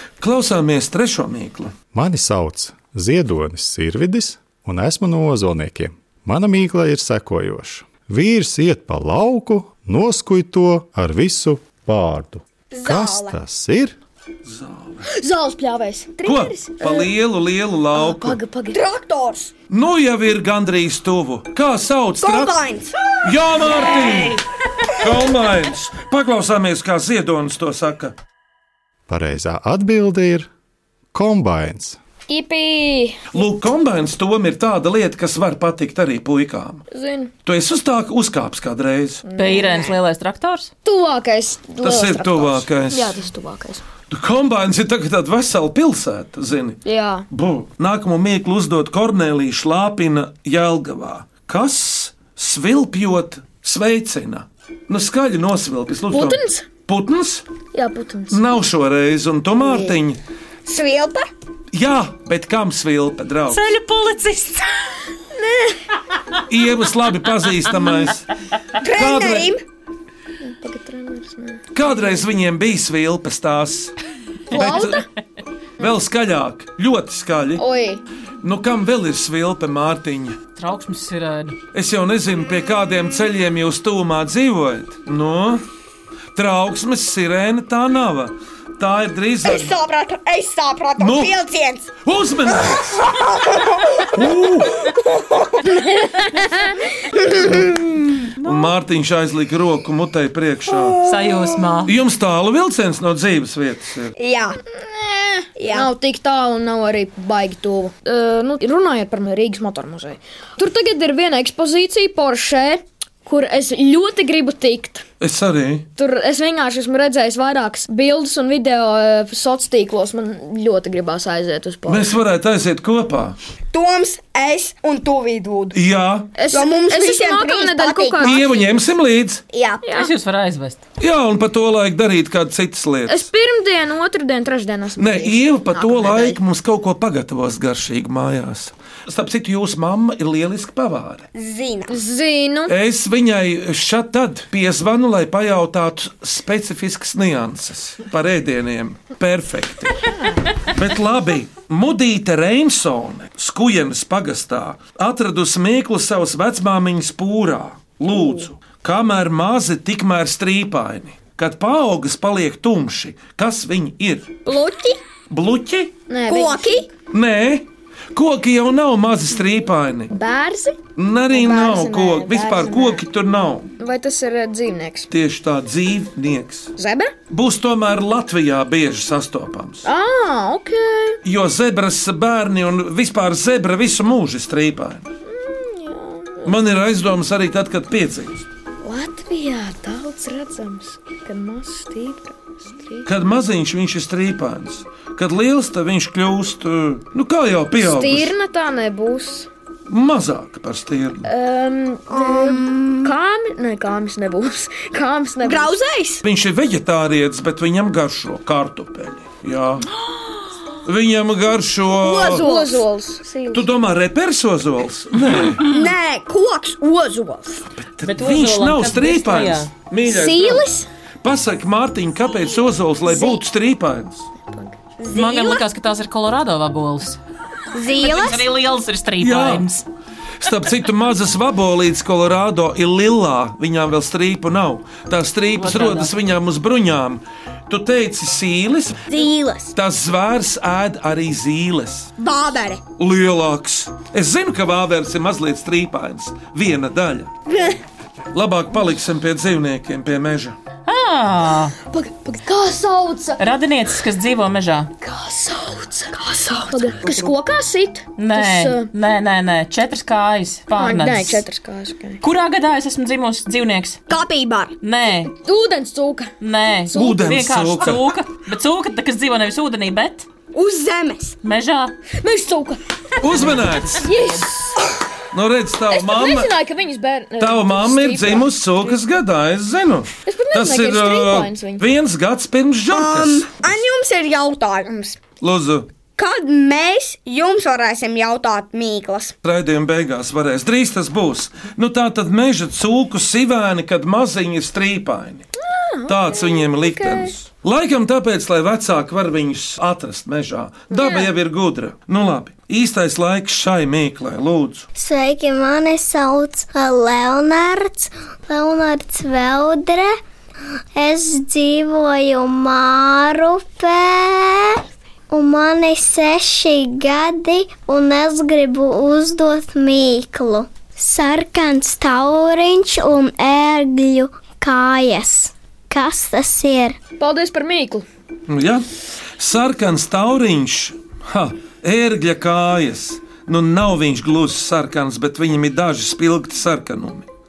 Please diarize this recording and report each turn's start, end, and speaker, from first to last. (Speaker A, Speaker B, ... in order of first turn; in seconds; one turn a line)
Speaker A: 0.2-1.7
Speaker B: 1.9-13.9
Speaker C: 12.7-13.3
Speaker A: 14.4-15.1
Speaker D: 15.1-17.1
Speaker A: 16.2-18.4
Speaker D: 17.9-18.8
Speaker C: 18.7-19.5
Speaker A: 19.7-22.6
Speaker C: 22.2-23.1
Speaker A: 23.2-24.4
Speaker A: 25.0-28.1
Speaker B: 29.1-30.5
Speaker B: 31.1-32.0
Speaker D: 32.3-33.2
Speaker A: 33.3-36.8
Speaker D: 36.9-37.3
Speaker A: 37.4-39.2
Speaker D: 39.2-39.8
Speaker E: 39.4-40.7
Speaker D: 40.8-43.8
Speaker A: 41.8-43.2
Speaker A: 44.1-46.8
Speaker D: 46.8-47.2
Speaker A: 47.3-57.4
Speaker D: 56.1-56.6
Speaker D: 57.7-58.4
Speaker A: 58.3-60.2
Speaker C: 59.6-59.9
Speaker C: 60.6-61.3
Speaker A: 61.7-63.7
Speaker E: 63.5-64.7
Speaker A: 66.5-68.3
Speaker C: 68.8-69.6
Speaker A: 68.9-69.5
Speaker D: 70.4-71.6
Speaker A: 71.7-73.9
Speaker A: 74.5-75.0
Speaker D: 74.5-75.0
Speaker A: 75.8-77.6
Speaker D: 77.6-78.0
Speaker A: 78.4-80.4
Speaker E: 80.5-81.6
Speaker A: 81.7-85.6
Speaker A: 86.3-89.7
Speaker C: 89.4-91.9
Speaker A: 91.0-91.3
Speaker A: 92.0-93.0
Speaker C: 93.1-95.8
Speaker A: 94.1-94.8
Speaker D: 96.0-96.7
Speaker C: 97.1-98.0
Speaker A: 98.4-101.0
Speaker C: 100.8-101.5
Speaker E: 101.0-101.9
Speaker A: 101.8-104.1
Speaker C: 104.2-104.6
Speaker D: 104.8-115.0
Speaker C: 105.6-105.9
Speaker A: 115.2-115.8
Speaker D: 116.0-122.1
Speaker A: 121.9-123.3
Speaker C: 123.7-125.8
Speaker A: 125.7-126.3
Speaker D: 126.4-128.6
Speaker C: 126.5-128.6
Speaker A: 128.2-129.4
Speaker C: 129.5-130.1
Speaker E: 129.9-130.8
Speaker A: 131.0-133.3
Speaker D: 133.1-136.3
Speaker A: 135.0-141.2
Speaker C: 141.3-141.9
Speaker D: 141.9-142.7
Speaker A: 142.7-150.0
Speaker A: 150.7-164.3
Speaker C: 164.4-165.0
Speaker A: 165.3-165.9
Speaker D: 166.1-166.9
Speaker C: 166.3-166.9
Speaker A: 167.1-170.1
Speaker D: 170.1-170.8
Speaker A: 170.9-173.7
Speaker D: 171.3-173.0
Speaker D: 173.8-175.1
Speaker A: 175.1-176.7
Speaker D: 176.8-177.1
Speaker A: 177.3-179.8
Speaker D: 179.8-181.2
Speaker A: 181.2-185.1
Speaker D: 185.2-186.5
Speaker A: 186.4-188.4
Speaker D: 188.8-193.1
Speaker A: 193.1-198.3
Speaker D: 197.8-199.5
Speaker A: 199.9-201.2
Speaker D: 201.2-205.7
Speaker C: 202.1-203.1
Speaker C: 205.4-206.2
Speaker A: 206.2-209.8
Speaker A: 210.8-212.4
Speaker C: 211.9-212.8
Speaker D: 212.3-213.7
Speaker A: 213.5-215.6
Speaker C: 215.6-217.7
Speaker A: 217.9-220.7
Speaker E: 218.0-219.7
Speaker D: 220.1-220.8
Speaker C: 220.1-220.4
Speaker A: 221.2-224.3
Speaker D: 223.1-223.4
Speaker D: 224.4-224.7
Speaker C: 225.0-225.6
Speaker E: 225.1-227.2
Speaker C: 227.7-228.4
Speaker E: 227.9-229.8
Speaker A: 229.2-229.7
Speaker A: 230.4-239.2
Speaker E: 235.6-236.1
Speaker C: 239.1-239.7
Speaker A: 239.7-242.1
Speaker C: 242.2-242.8
Speaker A: 243.0-247.3
Speaker C: 247.5-247.8
Speaker A: 248.3-250.6
Speaker E: 250.8-251.7
Speaker D: 251.9-253.4
Speaker E: 253.4-254.9
Speaker D: 255.0-258.9
Speaker E: 258.2-261.4
Speaker D: 260.8-262.2
Speaker E: 262.2-264.0
Speaker C: 264.1-264.7
Speaker E: 264.8-265.3
Speaker D: 265.3-266.3
Speaker E: 266.4-270.2
Speaker D: 266.9-267.3
Speaker A: 266.9-268.0
Speaker C: 270.5-271.4
Speaker E: 271.4-271.9
Speaker D: 272.2-272.8
Speaker A: 273.2-274.1
Speaker E: 273.3-274.4
Speaker D: 273.9-274.8
Speaker A: 275.3-276.5
Speaker D: 275.9-278.9
Speaker A: 277.4-283.5
Speaker D: 280.2-281.8
Speaker C: 282.9-285.2
Speaker A: 285.4-285.9
Speaker C: 286.1-289.3
Speaker A: 289.4-295.4
Speaker D: 295.7-297.3
Speaker A: 296.1-304.9
Speaker D: 300.9-301.3
Speaker F: 304.9-310.2
Speaker F: 310.9-327.0
Speaker D: 327.2-328.1
Speaker A: 328.5-328.9
Speaker A: 329.4-337.2